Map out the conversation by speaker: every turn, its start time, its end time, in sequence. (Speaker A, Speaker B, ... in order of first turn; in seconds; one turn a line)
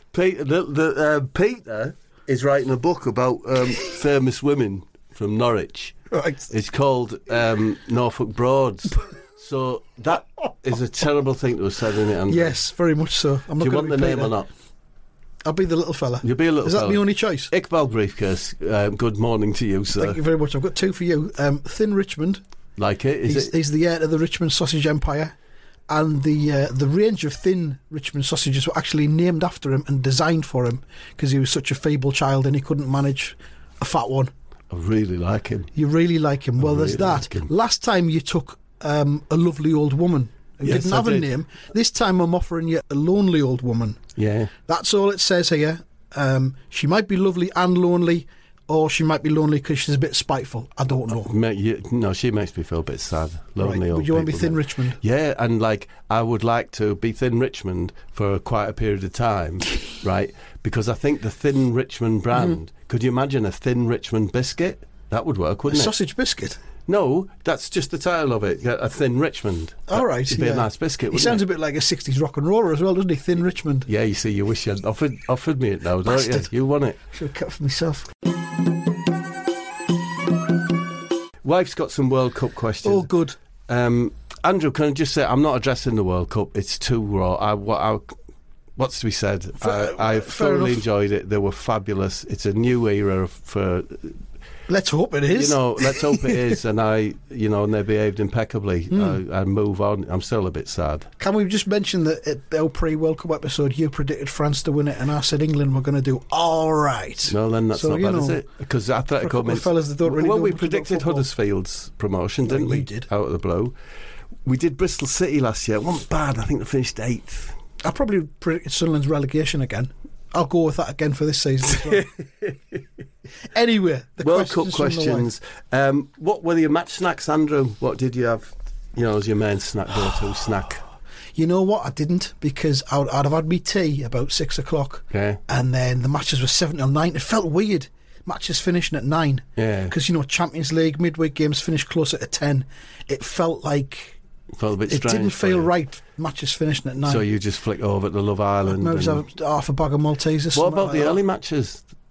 Speaker A: 0.1-12.6
Speaker B: 6.1-6.5
Speaker B: 12.3-14.3
Speaker A: 13.6-14.5
Speaker B: 15.4-17.5
Speaker A: 16.2-20.2
Speaker B: 20.0-22.4
Speaker A: 22.8-23.5
Speaker B: 23.2-25.3
Speaker B: 25.9-34.3
Speaker A: 34.7-35.7
Speaker B: 35.7-44.0
Speaker A: 36.6-37.5
Speaker A: 40.6-41.3
Speaker A: 44.1-44.5
Speaker B: 44.6-51.3
Speaker A: 51.2-65.9
Speaker B: 53.6-55.0
Speaker B: 65.7-66.6
Speaker A: 66.9-71.4
Speaker B: 69.9-73.9
Speaker A: 73.9-77.0
Speaker B: 76.0-76.5
Speaker B: 77.1-78.0
Speaker A: 81.4-83.1
Speaker B: 82.8-83.3
Speaker A: 83.7-88.1
Speaker A: 88.8-94.2
Speaker B: 89.6-90.8
Speaker B: 94.7-96.4
Speaker A: 95.3-101.1
Speaker B: 98.9-99.2
Speaker B: 101.2-108.4
Speaker A: 107.3-113.7
Speaker B: 109.2-111.3
Speaker B: 112.5-113.1
Speaker A: 114.5-117.5
Speaker B: 117.8-122.1
Speaker A: 121.8-122.8
Speaker B: 123.5-125.3
Speaker A: 124.2-130.8
Speaker B: 131.3-144.2
Speaker A: 135.1-135.4
Speaker A: 139.6-139.9
Speaker A: 144.5-145.7
Speaker B: 144.9-147.2
Speaker A: 147.1-149.2
Speaker B: 148.7-151.2
Speaker A: 150.5-151.8